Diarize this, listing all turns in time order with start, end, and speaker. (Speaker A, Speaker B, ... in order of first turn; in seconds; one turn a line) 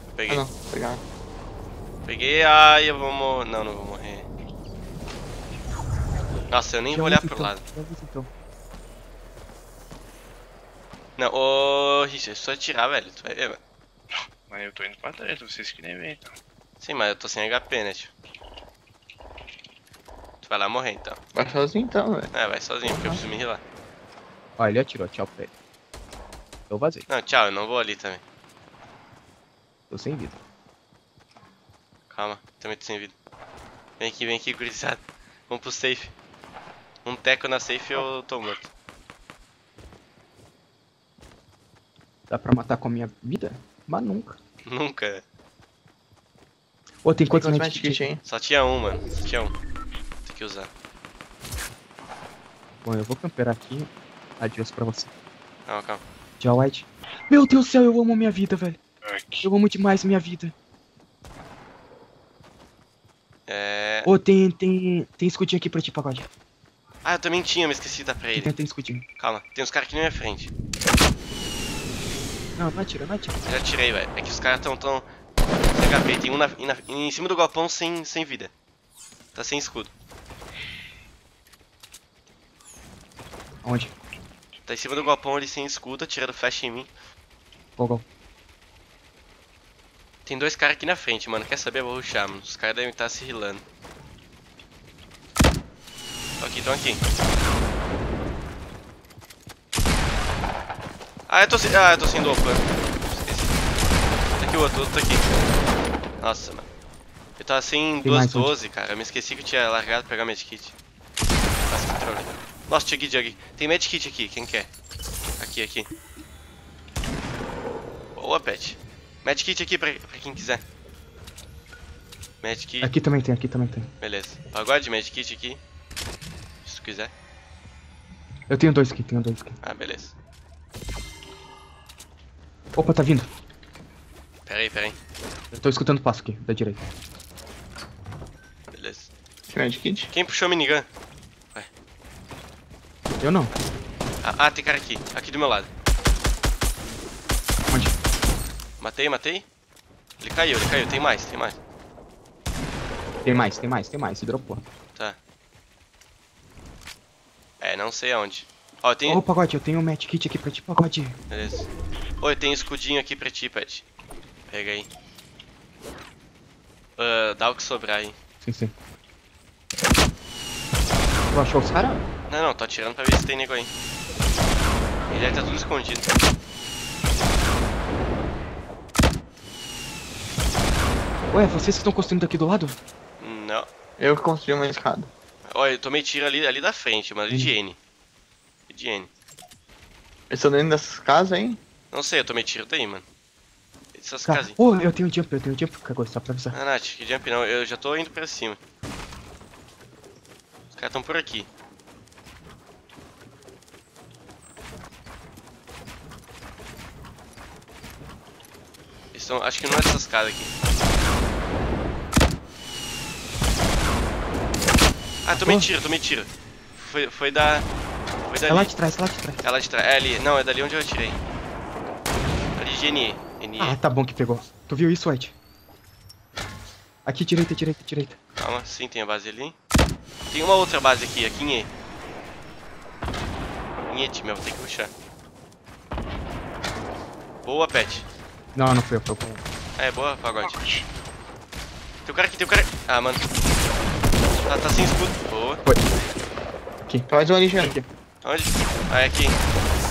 Speaker A: 0.1-0.5
Speaker B: 0.3-1.0
Speaker A: 2.0-4.2
Speaker A: 6.5-7.6
Speaker C: 6.9-8.3
Speaker A: 11.2-13.6
Speaker D: 14.1-16.3
Speaker A: 16.8-18.1
Speaker A: 20.4-21.2
Speaker B: 21.3-23.2
Speaker A: 22.3-23.6
Speaker C: 24.6-25.5
Speaker C: 26.7-27.1
Speaker A: 27.1-28.2
Speaker C: 29.9-30.4
Speaker A: 32.1-33.1
Speaker A: 34.0-36.1
Speaker A: 37.0-38.7
Speaker C: 42.3-44.4
Speaker A: 44.6-45.2
Speaker C: 47.0-48.0
Speaker B: 47.3-48.2
Speaker A: 48.2-49.5
Speaker A: 50.2-50.7
Speaker C: 52.8-55.1
Speaker A: 55.7-56.0
Speaker C: 56.4-58.8
Speaker D: 59.0-59.5
Speaker C: 59.4-60.5
Speaker A: 63.5-64.1
Speaker C: 64.0-66.3
Speaker A: 67.0-68.5
Speaker C: 68.3-69.0
Speaker A: 69.2-70.5
Speaker C: 72.6-73.4
Speaker A: 73.5-75.1
Speaker A: 75.7-78.5
Speaker A: 79.3-79.9
Speaker C: 83.6-83.9
Speaker A: 84.7-86.9
Speaker C: 87.8-88.0
Speaker A: 90.2-93.6
Speaker A: 96.4-97.0
Speaker A: 101.3-103.5
Speaker A: 104.4-105.2
Speaker A: 106.2-106.7
Speaker A: 107.4-110.7
Speaker C: 108.0-108.5
Speaker A: 111.7-114.7
Speaker A: 115.4-115.9
Speaker A: 118.2-120.6
Speaker A: 122.4-122.9
Speaker C: 122.8-123.9
Speaker A: 124.0-125.6
Speaker A: 126.6-127.1
Speaker C: 128.5-129.6
Speaker A: 129.6-130.1
Speaker C: 132.8-133.3
Speaker A: 134.4-135.0
Speaker C: 135.5-136.8
Speaker A: 138.7-139.1
Speaker B: 139.5-140.1
Speaker A: 140.1-140.9
Speaker C: 143.2-143.5
Speaker A: 144.2-145.7
Speaker C: 147.7-147.9
Speaker A: 148.8-149.5
Speaker A: 150.2-151.6
Speaker C: 153.2-154.6
Speaker A: 157.6-159.2
Speaker C: 159.1-161.2
Speaker A: 161.3-161.7
Speaker A: 162.2-163.8
Speaker A: 164.5-164.9
Speaker A: 167.0-168.2
Speaker C: 168.4-168.7
Speaker C: 171.3-172.0
Speaker A: 172.3-173.7
Speaker A: 175.1-176.1
Speaker C: 181.3-182.8
Speaker A: 183.2-183.7
Speaker B: 184.0-185.1
Speaker A: 185.4-187.8
Speaker C: 187.3-187.5
Speaker A: 188.7-189.1
Speaker B: 190.3-191.6
Speaker A: 191.9-193.1
Speaker A: 193.9-194.6
Speaker C: 194.2-196.6
Speaker A: 196.5-198.6
Speaker A: 200.7-201.5
Speaker A: 209.1-210.5
Speaker A: 215.2-217.7
Speaker C: 215.3-215.7
Speaker A: 218.3-218.7
Speaker C: 218.4-219.4
Speaker A: 219.4-221.2
Speaker A: 222.6-223.8
Speaker C: 223.6-225.3
Speaker C: 227.0-228.2
Speaker A: 228.4-229.6
Speaker A: 230.3-231.7
Speaker A: 233.9-234.9
Speaker A: 237.4-238.1
Speaker C: 238.5-239.4
Speaker A: 239.8-240.6
Speaker D: 240.4-240.8
Speaker A: 242.0-243.2
Speaker A: 244.4-245.6
Speaker C: 246.8-247.9
Speaker B: 247.1-247.8
Speaker A: 248.2-249.4